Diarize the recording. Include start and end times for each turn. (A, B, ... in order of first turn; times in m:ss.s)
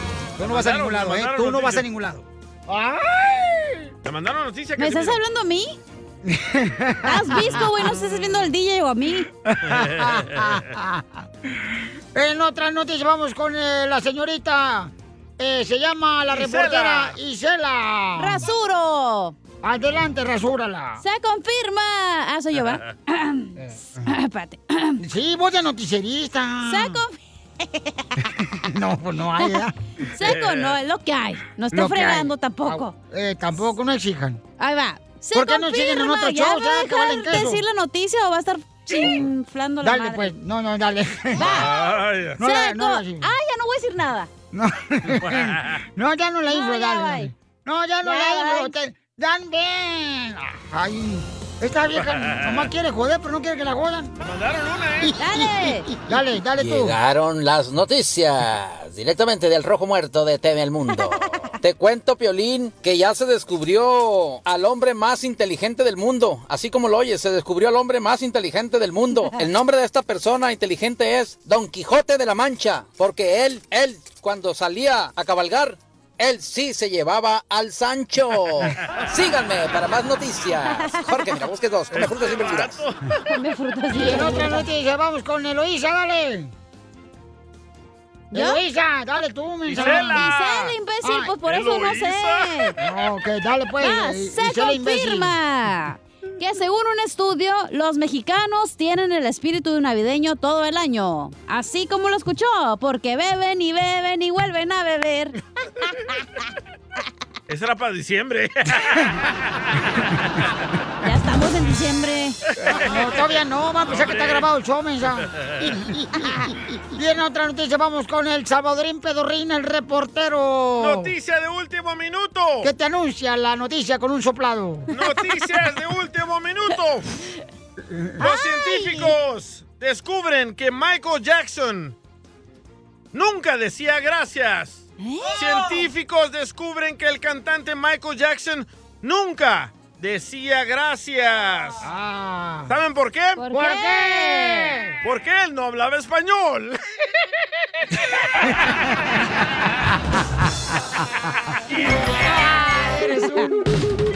0:00.4-0:03.9 A
0:00.4-0:01.8 B
0:04.0-0:05.2 B
0:04.8-0:05.8 C
0:06.2-0:07.6 A
0:07.0-0:09.3 C
0:09.4-0:18.4 A
0:09.6-0:10.6 B
0:16.3-0:17.2 B
0:18.2-0:19.3 C
0:19.6-0:21.0 A
0:21.0-0:25.0 C
0:23.6-0:24.0 A
0:25.0-0:27.0 A
0:26.6-0:28.1 C
0:28.2-0:29.7 A
0:30.1-0:32.9 C
0:30.2-0:30.7 B
0:31.7-0:34.4 A
0:34.6-0:40.3 C
0:35.3-0:37.6 A
0:39.8-0:41.7 A
0:41.4-0:44.3 C
0:41.4-0:42.4 B
0:42.4-0:43.3 A
0:44.5-0:54.1 A
0:45.1-0:45.8 B
0:46.5-0:47.3 C
0:48.0-0:48.7 C
0:51.9-0:52.7 B
0:54.2-0:55.2 B
0:55.0-0:57.0 A
0:55.2-0:55.9 C
0:56.6-1:22.8 D
1:20.7-1:21.2 C
1:21.9-1:23.2 B
1:23.3-1:24.6 C
1:23.9-1:26.5 A
1:28.3-1:28.6 C
1:28.3-1:30.2 A
1:29.7-1:30.7 B
1:29.8-1:32.8 C
1:31.0-1:31.3 A
1:31.4-1:32.8 B
1:32.8-1:35.3 A
1:33.8-1:45.4 C
1:47.5-1:50.0 B
1:51.0-1:52.4 C
1:52.6-2:01.1 A
1:52.6-1:53.2 B
1:53.9-1:54.5 B
1:55.4-1:55.6 B
2:00.8-2:02.7 B
2:02.6-2:04.9 A
2:04.9-2:07.0 B
2:07.9-2:08.2 A
2:08.2-2:09.1 C
2:08.2-2:12.0 B
2:13.1-2:21.8 B
2:15.0-2:15.4 C
2:21.8-2:22.7 A
2:22.7-2:23.4 B
2:23.4-2:24.7 C
2:23.5-2:25.0 A
2:25.0-2:26.8 B
2:32.3-2:33.5 A